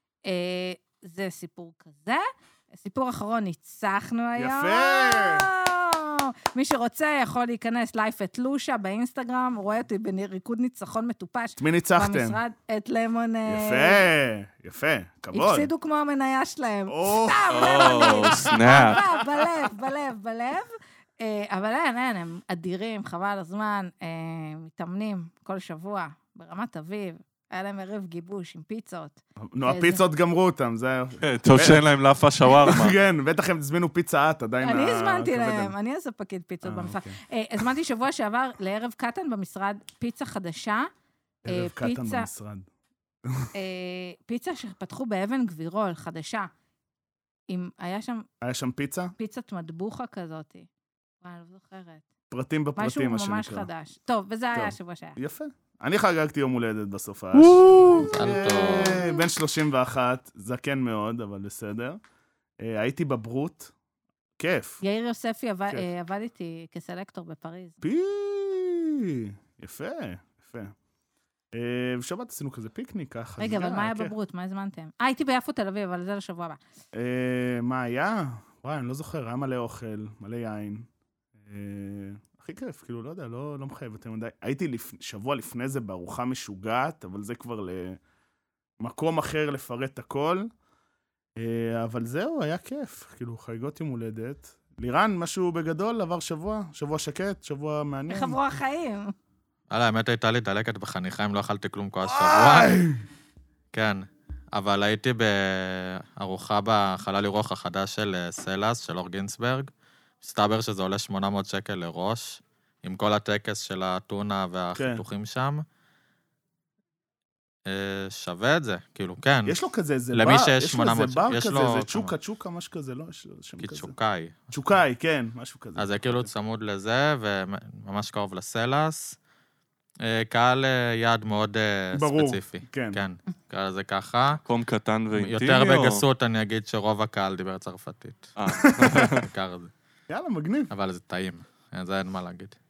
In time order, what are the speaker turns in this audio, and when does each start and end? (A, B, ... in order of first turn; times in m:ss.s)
0:00.2-0:14.0 A
0:04.4-0:05.5 B
0:11.6-0:12.4 B
0:13.5-0:15.7 B
0:15.3-0:30.0 A
0:16.9-0:19.2 B
0:17.5-0:19.0 C
0:29.4-0:31.8 B
0:31.2-0:32.9 C
0:32.5-0:35.7 B
0:34.6-0:40.9 A
0:36.6-0:37.2 B
0:41.4-0:42.7 B
0:41.5-0:42.3 A
0:43.5-0:46.5 A
0:47.5-0:48.2 A
0:48.4-0:49.1 B
0:49.2-0:50.7 A
0:51.2-0:52.0 A
0:52.3-0:53.7 B
0:52.8-0:55.2 A
0:54.5-1:02.0 B
0:57.9-0:59.1 D
1:02.6-1:03.7 B
1:04.4-1:04.8 B
1:04.8-1:07.8 A
1:07.8-1:10.7 B
1:11.5-1:14.1 B
1:13.4-1:16.6 A
1:16.9-1:20.9 B
1:21.4-1:28.0 B
1:28.8-1:30.5 B
1:31.4-1:38.4 B
1:38.1-1:39.1 A
1:39.7-1:42.8 D
1:42.1-1:43.0 B
1:43.7-1:49.7 D
1:50.2-1:55.6 D
1:54.7-1:55.0 B
1:57.6-1:59.6 D
1:59.4-2:03.9 B
2:00.1-2:02.1 D
2:03.6-2:04.5 D
2:04.5-2:06.3 B
2:05.8-2:09.2 D
2:10.0-2:14.4 D
2:11.9-2:13.0 B
2:14.4-2:16.0 C
2:15.1-2:18.3 D
2:18.4-2:19.2 C
2:18.7-2:19.1 B
2:18.9-2:19.7 D
2:20.1-2:20.7 B
2:20.7-2:22.6 D